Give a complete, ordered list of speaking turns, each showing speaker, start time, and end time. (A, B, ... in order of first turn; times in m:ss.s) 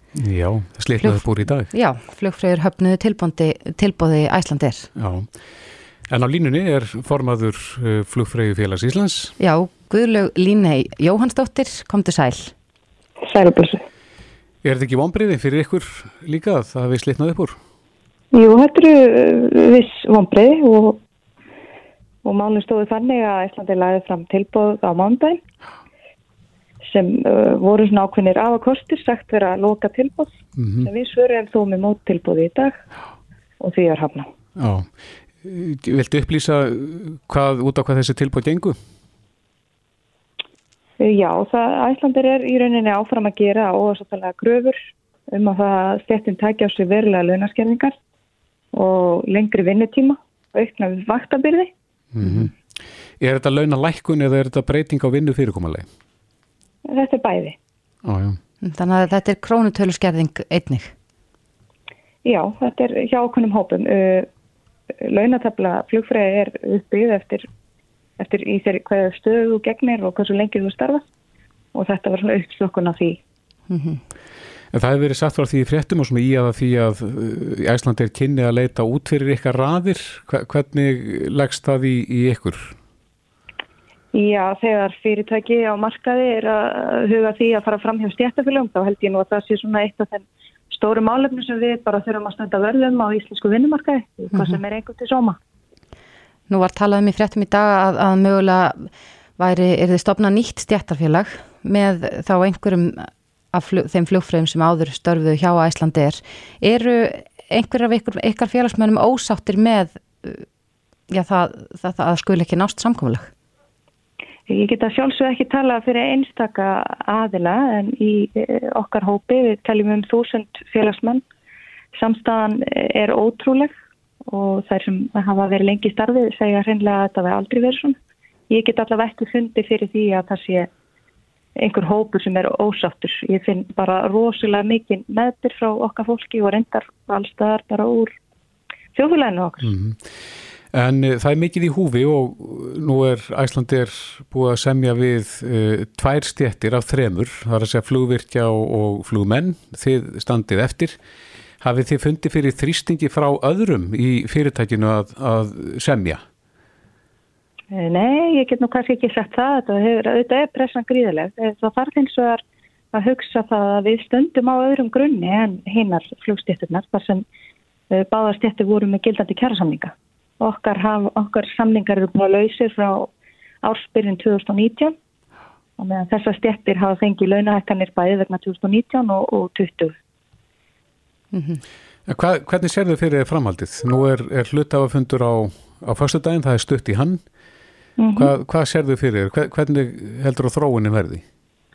0:00.1-0:01.7 A
0:01.0-0:04.9 B
0:05.0-0:05.4 A
0:06.1-0:09.4 A
0:09.4-0:12.5 B
0:13.2-0:13.8 C
0:14.6-0:17.6 A
0:18.3-0:21.0 C
0:22.2-0:25.4 C
0:26.9-0:32.8 C
0:30.6-0:30.9 A
0:33.6-0:34.3 C
0:34.6-0:34.9 A
0:35.4-0:38.8 A
0:41.0-0:44.8 C
0:45.3-0:48.0 C
0:48.7-0:51.7 C
0:52.1-0:52.5 A
0:52.2-0:52.5 B
0:53.2-0:55.9 A
0:56.9-0:57.6 C
0:58.0-0:58.4 A
0:58.6-1:00.9 B
1:02.2-1:04.3 C
1:05.0-1:07.5 C
1:08.2-1:11.0 C
1:11.7-1:13.2 C
1:13.7-1:14.0 B
1:14.7-1:22.8 A
1:24.1-1:35.4 C
1:36.5-1:50.4 B
1:51.1-1:53.3 B
1:54.5-2:01.2 C
2:01.9-2:03.7 C
2:04.3-2:08.0 C
2:08.5-2:10.7 C
2:11.6-2:18.2 C
2:18.9-2:19.7 C
2:19.6-2:20.1 A
2:20.7-2:31.0 A
2:31.6-2:36.2 A
2:37.7-2:47.2 C
2:47.9-2:53.1 C
2:53.6-2:55.0 C
2:55.8-2:59.9 C
3:01.3-3:01.6 B
3:02.1-3:07.2 A
3:08.0-3:08.3 C
3:08.2-3:11.2 A